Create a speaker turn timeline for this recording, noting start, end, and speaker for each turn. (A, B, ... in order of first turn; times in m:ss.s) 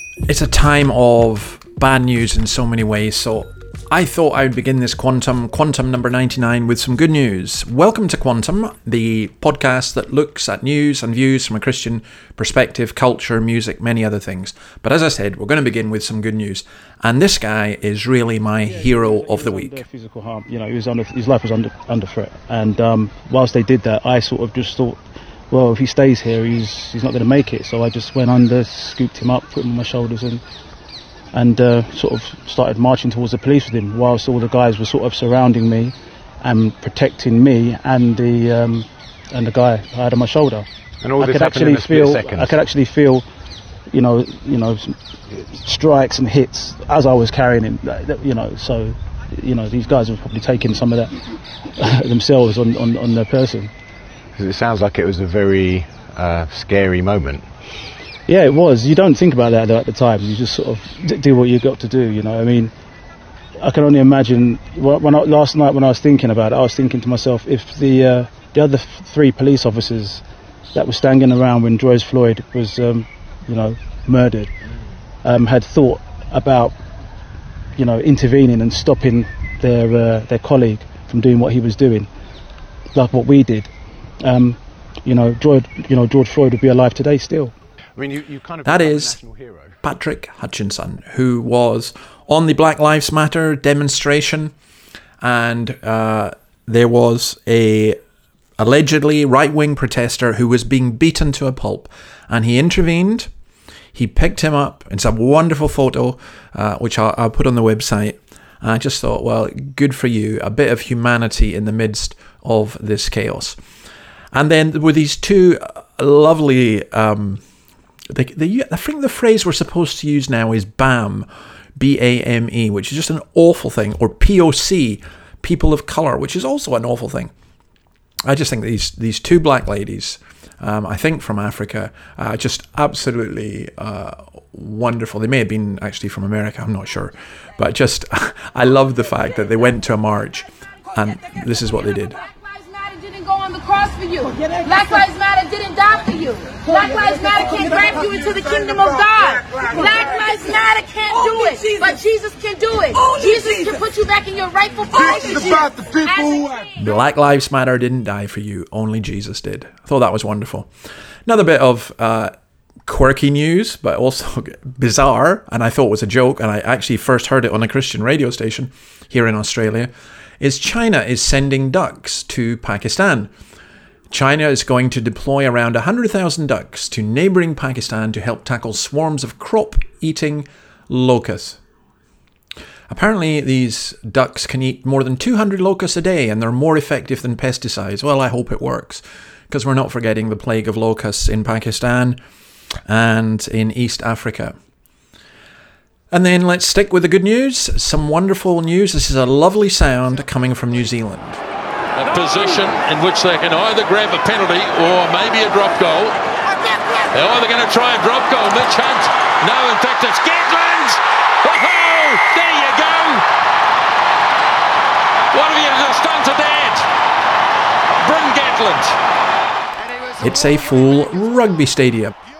0:00.2-0:19.8 A
0:18.6-0:25.0 B
0:25.5-0:30.4 B
0:31.3-0:40.7 B
0:41.0-0:42.6 C
0:41.2-0:43.2 B
0:43.9-0:45.0 B
0:45.5-0:51.1 B
0:51.8-0:53.7 B
0:54.4-0:57.5 C
0:58.3-1:02.7 B
1:03.6-1:10.2 B
1:10.7-1:14.5 B
1:15.2-1:16.8 B
1:17.8-1:22.1 B
1:22.9-1:27.5 B
1:28.0-1:29.8 C
1:28.6-1:29.2 A
1:29.8-1:34.5 A
1:35.2-1:38.0 A
1:38.6-1:43.3 A
1:43.9-1:53.6 A
1:54.3-1:57.4 A
1:58.1-2:07.3 A
2:08.2-2:22.2 A
2:22.4-2:36.7 D
2:36.8-2:40.7 A
2:41.2-2:42.3 A
2:42.8-2:53.3 A
2:54.1-3:01.6 A
3:02.9-3:12.2 A
3:12.8-3:14.6 A
3:16.1-3:21.4 A
3:21.9-3:26.1 E
3:27.1-3:33.2 E
3:35.3-3:36.9 E
3:38.0-3:39.0 E
3:40.2-3:42.1 A